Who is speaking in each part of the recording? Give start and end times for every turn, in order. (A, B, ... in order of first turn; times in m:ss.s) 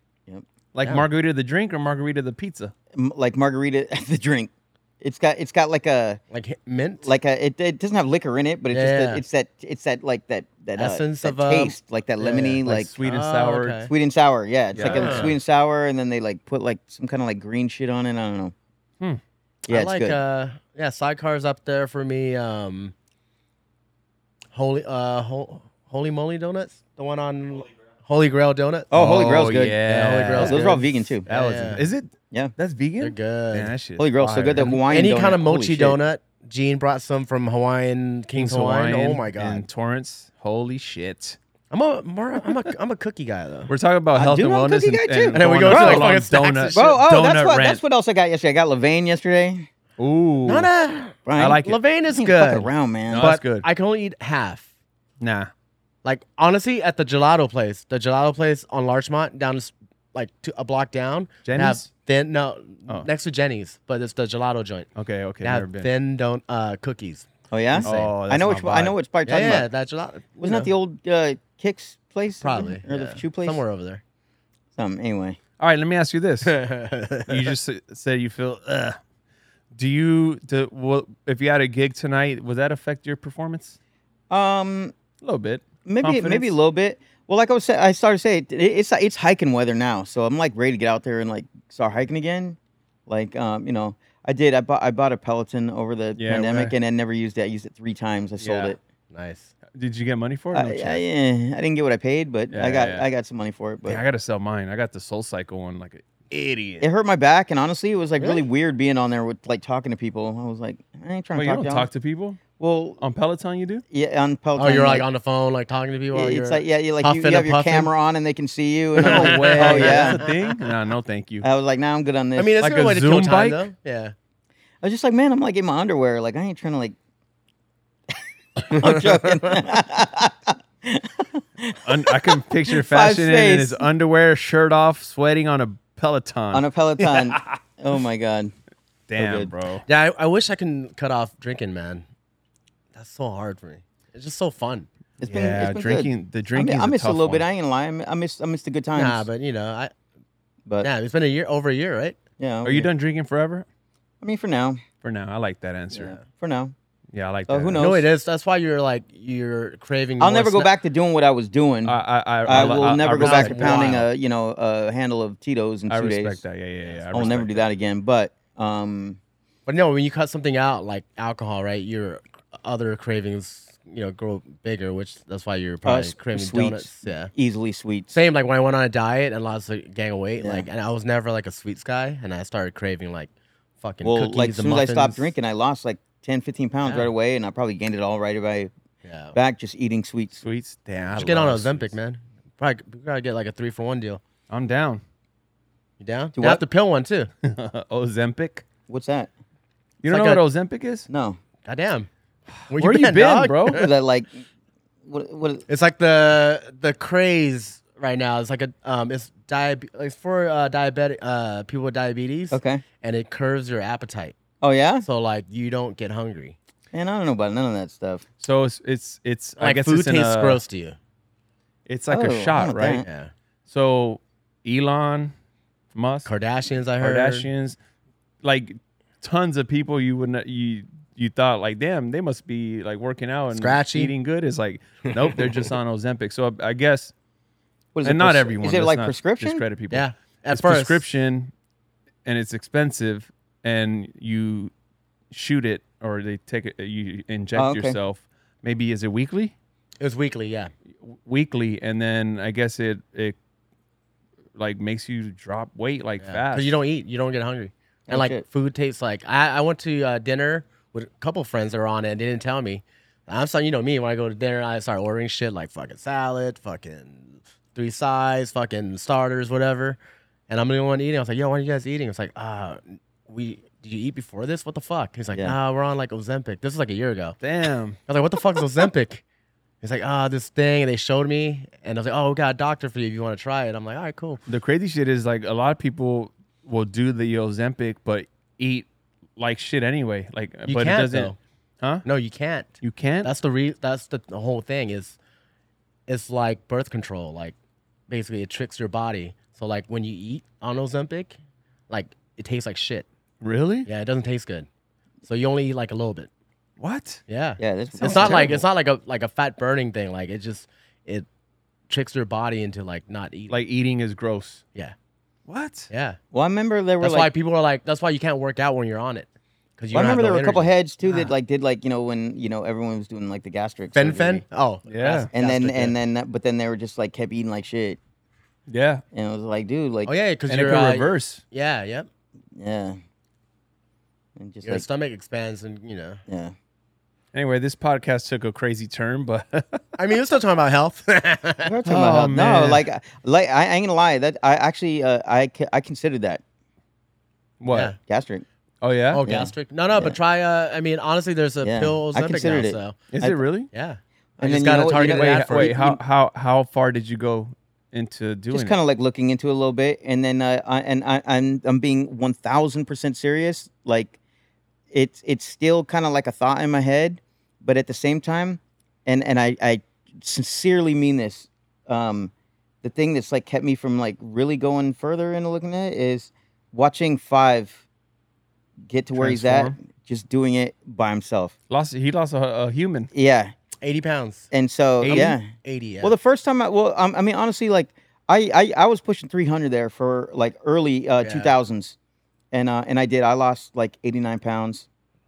0:00.7-0:02.7 A
0:02.9-0:06.2 B
0:06.3-0:07.1 C
0:07.0-0:12.9 B
0:08.7-0:09.2 C
0:10.8-0:13.9 C
0:12.6-0:13.8 A
0:13.9-0:18.5 B
0:14.7-0:15.3 A
0:14.8-0:15.3 C
0:19.7-0:20.2 B
0:19.7-0:22.9 C
0:24.5-0:28.9 C
0:28.9-0:29.8 B
0:28.9-0:30.7 A
0:29.8-0:31.8 C
0:30.3-0:31.2 B
0:31.2-0:34.6 A
0:33.0-0:33.7 C
0:34.0-0:36.0 B
0:34.4-0:39.6 C
0:38.3-0:41.4 A
0:41.7-0:43.7 C
0:43.7-0:47.8 A
0:44.1-0:46.2 B
0:45.3-0:47.0 C
0:46.7-0:49.7 B
0:50.0-0:50.7 A
0:50.4-0:54.7 C
0:51.2-0:51.6 B
0:51.4-0:51.8 A
0:52.1-0:53.3 B
0:53.1-0:53.6 A
0:55.2-0:55.5 A
0:56.0-1:04.9 C
1:01.4-1:01.9 A
1:05.0-1:05.9 A
1:05.4-1:08.1 C
1:07.5-1:09.7 B
1:07.8-1:08.9 A
1:09.2-1:10.7 C
1:10.4-1:13.6 B
1:12.4-1:14.0 C
1:14.8-1:15.4 B
1:15.6-1:16.6 A
1:16.4-1:17.5 C
1:17.3-1:19.0 A
1:19.7-1:23.8 A
1:24.3-1:24.9 B
1:25.2-1:26.5 A
1:25.8-1:38.8 B
1:36.2-1:36.7 A
1:38.4-1:38.7 A
1:39.1-1:39.5 C
1:39.7-1:41.0 A
1:40.5-1:44.0 B
1:42.5-1:43.0 A
1:43.8-1:46.9 A
1:46.8-1:51.9 B
1:51.3-1:52.4 A
1:52.6-1:53.0 B
1:53.0-1:53.8 A
1:53.9-1:55.0 B
1:54.6-1:57.9 C
1:56.1-2:00.2 B
1:59.0-2:00.4 C
1:59.0-2:01.5 A
2:01.4-2:02.6 B
2:02.4-2:04.1 C
2:02.6-2:03.7 A
2:04.8-2:07.0 B
2:08.7-2:13.8 B
2:08.7-2:09.6 C
2:11.8-2:17.5 A
2:16.5-2:18.5 B
2:19.1-2:19.8 A
2:19.2-2:19.5 B
2:19.8-2:22.0 C
2:22.9-2:24.9 C
2:25.2-2:29.3 B
2:25.2-2:27.4 A
2:28.9-2:29.9 C
2:30.8-2:32.2 C
2:32.4-2:32.9 B
2:32.6-2:33.6 A
2:34.2-2:34.8 B
2:35.0-2:36.2 A
2:36.0-2:36.7 B
2:37.1-2:37.8 A
2:37.5-2:38.0 B
2:37.8-2:40.7 C
2:40.2-2:46.4 B
2:41.8-2:44.0 A
2:42.5-2:44.1 C
2:45.9-2:47.6 A
2:46.8-2:47.4 C
2:47.1-2:49.2 B
2:49.6-2:57.3 C
2:55.8-2:58.2 B
2:58.1-3:03.3 C
3:00.4-3:00.7 B
3:03.8-3:05.3 C
3:04.0-3:08.7 B
3:09.0-3:09.4 C
3:09.3-3:10.4 B
3:10.4-3:11.9 A
3:11.1-3:14.2 C
3:14.5-3:15.0 A
3:16.0-3:17.3 C
3:16.4-3:16.6 B
3:17.4-3:18.6 A
3:18.9-3:19.3 B
3:20.0-3:21.1 A
3:20.1-3:20.4 C
3:21.1-3:21.4 B
3:21.6-3:22.1 C
3:22.7-3:23.9 C
3:22.7-3:23.9 A
3:23.7-3:24.4 B
3:25.1-3:25.6 B
3:25.7-3:34.3 C
3:32.5-3:32.8 B
3:34.6-3:35.0 B
3:35.0-3:36.6 C
3:36.9-3:38.2 B
3:38.4-3:40.6 A
3:39.6-3:41.0 C
3:41.9-3:43.0 A
3:42.1-3:43.0 B
3:43.0-3:43.3 C
3:43.7-3:45.3 A
3:45.9-3:46.3 A
3:46.2-3:47.5 C
3:47.0-3:47.8 A
3:48.4-3:57.1 A
3:53.5-3:54.1 C
3:55.1-3:55.7 C
3:57.9-3:59.6 B
3:58.0-4:01.5 A
3:59.9-4:01.0 C
4:02.2-4:04.7 A
4:05.3-4:09.5 A
4:07.5-4:08.0 B
4:10.0-4:10.7 C
4:11.0-4:13.4 A
4:14.6-4:16.8 A
4:16.2-4:30.0 C
4:18.1-4:18.4 B
4:30.5-4:37.4 C
4:37.4-4:38.0 A
4:38.1-4:39.2 C
4:39.8-4:44.4 C
4:44.5-4:52.0 A
4:50.6-4:51.4 C
4:52.0-4:52.7 C
4:52.8-4:53.3 A
4:53.2-4:55.2 C
4:56.1-4:57.5 C
4:58.1-5:01.4 C
5:01.9-5:03.1 C
5:03.4-5:03.9 A
5:03.8-5:04.7 C
5:05.2-5:06.3 C
5:06.8-5:07.2 A
5:07.3-5:11.3 C
5:07.6-5:08.5 B
5:08.0-5:08.6 A
5:11.9-5:13.5 C
5:13.5-5:14.6 A
5:15.5-5:15.9 A
5:15.9-5:16.2 C
5:16.3-5:17.3 B
5:17.0-5:21.3 C
5:19.9-5:24.4 B
5:23.9-5:26.0 C
5:24.9-5:25.3 A
5:25.3-5:28.0 B
5:28.7-5:29.0 A
5:29.1-5:30.1 B
5:30.0-5:32.1 C
5:30.5-5:31.4 A
5:32.5-5:33.0 B
5:34.4-5:34.8 B
5:34.6-5:36.2 C
5:36.3-5:36.5 B
5:37.3-5:39.8 A
5:40.0-5:41.7 C
5:41.6-5:46.4 B
5:41.8-5:42.8 A
5:47.6-5:47.9 A
5:47.7-5:48.0 C
5:48.0-5:48.4 B
5:48.8-5:49.2 A
5:49.1-5:53.0 C
5:49.2-5:50.2 B
5:51.6-5:53.4 B
5:53.1-5:53.7 A
5:53.7-5:55.8 C
5:54.4-5:56.0 B
5:54.9-5:58.8 A
5:58.5-6:04.2 B
6:04.9-6:12.3 B
6:12.8-6:17.8 B
6:18.9-6:21.5 B
6:19.1-6:19.7 A
6:21.7-6:23.1 A
6:23.1-6:23.5 B
6:23.8-6:24.5 C
6:24.5-6:25.4 B
6:25.0-6:25.4 A
6:25.0-6:26.1 C
6:26.0-6:32.0 B
6:31.2-6:31.6 C
6:32.5-6:34.9 B